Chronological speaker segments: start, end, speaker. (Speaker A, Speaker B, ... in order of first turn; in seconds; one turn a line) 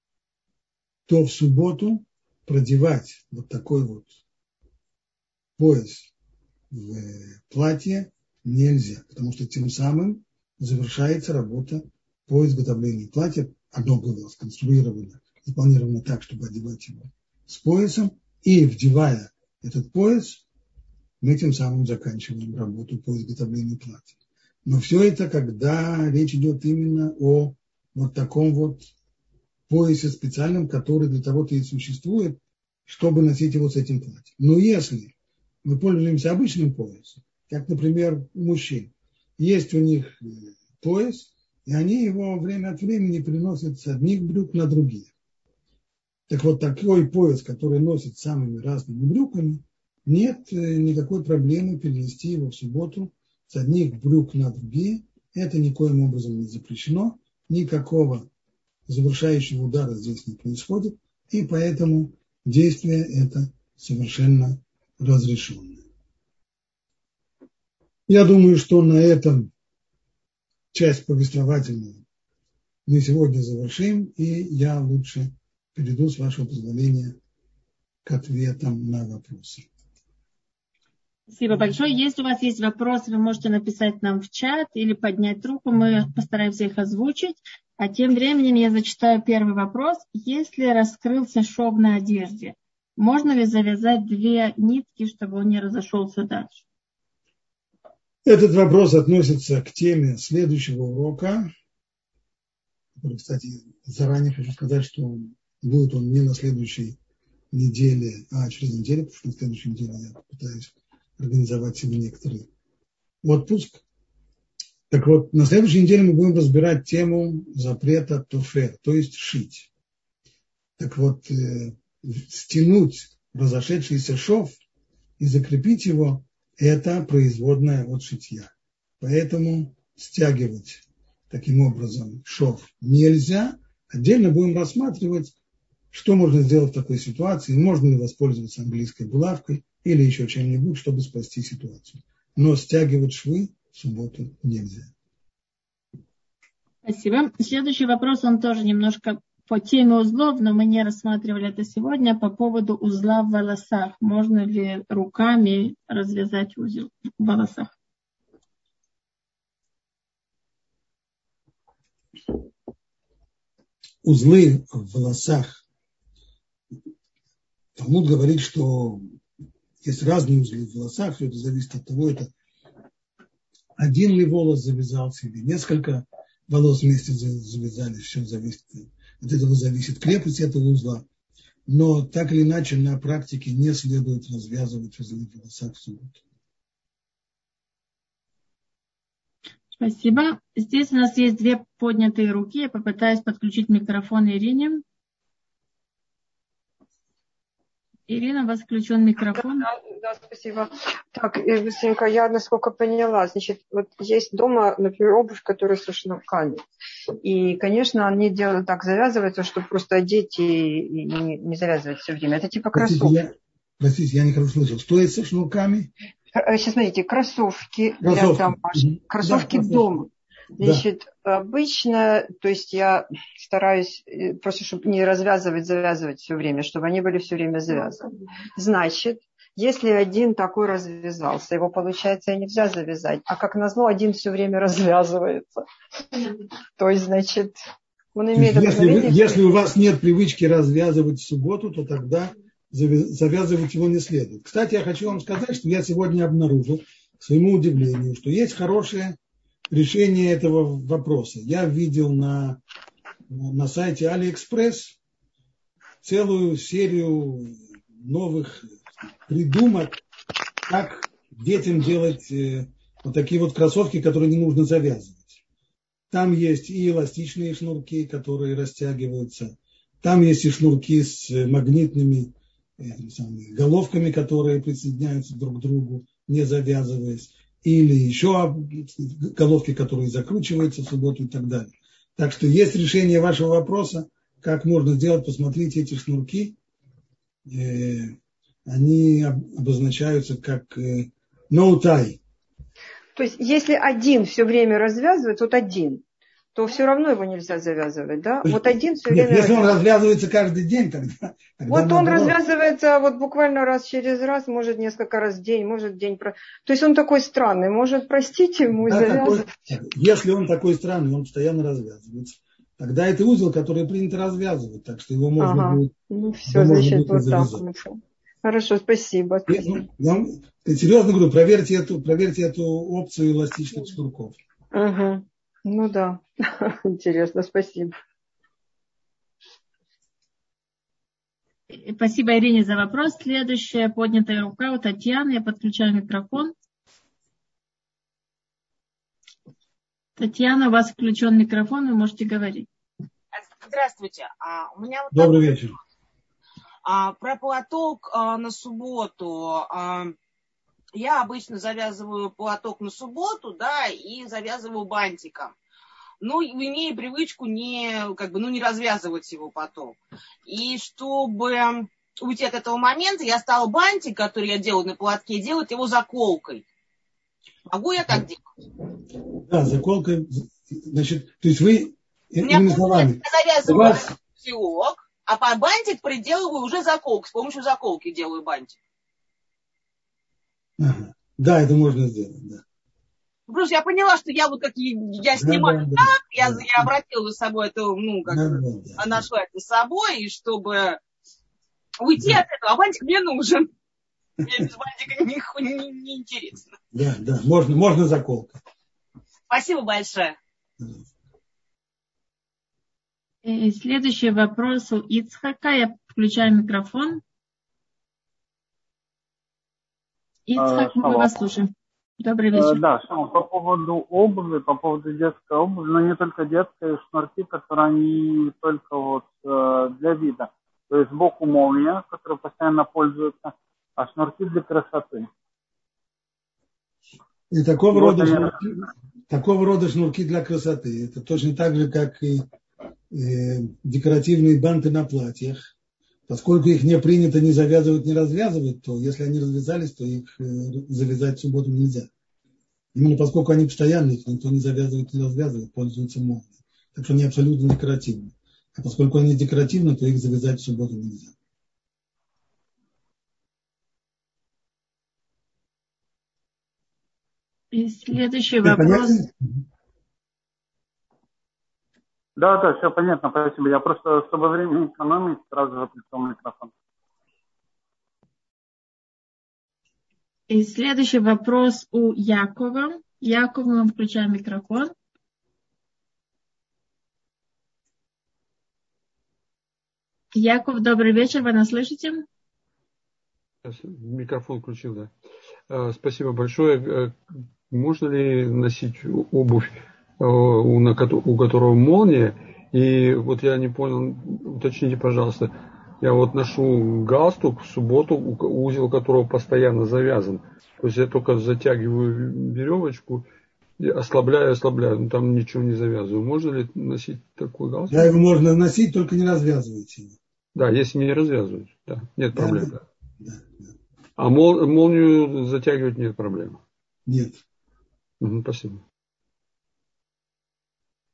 Speaker A: 1.1-4.2
Speaker A: 5.6-6.1
Speaker A: 6.7-20.4
Speaker A: 21.2-28.9
Speaker A: 29.7-35.1
Speaker A: 35.6-45.1
Speaker A: 46.3-58.3
Speaker A: 58.9-65.8
Speaker A: 68.1-69.5
Speaker A: 70.7-72.0
Speaker A: 72.9-77.2
Speaker A: 78.0-79.7
Speaker B: 81.3-96.6
Speaker A: 98.2-101.5
Speaker A: 103.0-107.0
Speaker A: 107.5-112.5
Speaker A: 113.2-113.8
Speaker A: 114.9-119.7
Speaker A: 120.8-124.6
Speaker A: 125.2-135.3
Speaker A: 135.9-144.9
Speaker B: 146.8-157.7
Speaker A: 164.0-165.6
Speaker A: 167.8-169.0
Speaker A: 169.8-172.3
Speaker A: 173.8-181.0
Speaker A: 181.7-186.2
Speaker B: 189.8-194.8
Speaker B: 198.1-199.7
Speaker C: 199.4-206.6
Speaker C: 207.2-213.2
Speaker A: 212.7-215.9
Speaker C: 216.3-237.6
Speaker A: 218.0-220.0
Speaker C: 238.1-239.4
Speaker A: 238.3-249.2
Speaker A: 249.7-252.6
Speaker A: 253.3-255.0
Speaker A: 256.0-260.0
Speaker A: 260.7-265.4
Speaker A: 266.1-286.6
Speaker A: 287.5-292.2
Speaker C: 293.1-296.0
Speaker C: 296.5-299.7
Speaker A: 298.4-302.4
Speaker C: 301.7-309.5
Speaker A: 308.8-315.9
Speaker C: 315.4-319.8
Speaker A: 316.5-317.6
Speaker A: 319.5-324.4
Speaker C: 324.7-327.9
Speaker B: 331.7-336.5
Speaker B: 340.2-342.7
Speaker D: 343.3-345.6
Speaker A: 345.1-345.8
Speaker D: 346.9-350.1
Speaker D: 350.9-355.5
Speaker D: 356.2-366.6
Speaker D: 367.7-368.4
Speaker A: 369.4-374.1
Speaker D: 372.4-378.8
Speaker A: 380.8-382.6
Speaker D: 383.5-391.0
Speaker A: 385.4-387.0
Speaker A: 388.2-389.3
Speaker D: 392.0-393.7
Speaker D: 394.4-396.6
Speaker A: 396.9-398.6
Speaker D: 399.5-400.4
Speaker A: 400.8-401.1
Speaker B: 403.4-407.2
Speaker B: 410.5-412.8
Speaker E: 410.6-411.3
Speaker E: 412.5-425.3
Speaker A: 427.5-432.4
Speaker E: 427.9-428.9
Speaker A: 433.1-435.6
Speaker A: 436.3-442.1
Speaker A: 442.9-451.3
Speaker B: 457.7-459.2
Speaker A: 458.6-459.3
Speaker E: 462.4-466.7
Speaker B: 470.5-474.9
Speaker B: 480.3-482.2
Speaker F: 483.6-485.1
Speaker F: 485.7-503.2
Speaker F: 503.8-508.0
Speaker A: 507.9-510.2
Speaker F: 510.5-512.8
Speaker A: 512.3-513.7
Speaker F: 514.2-516.6
Speaker A: 517.1-517.4
Speaker F: 518.2-518.8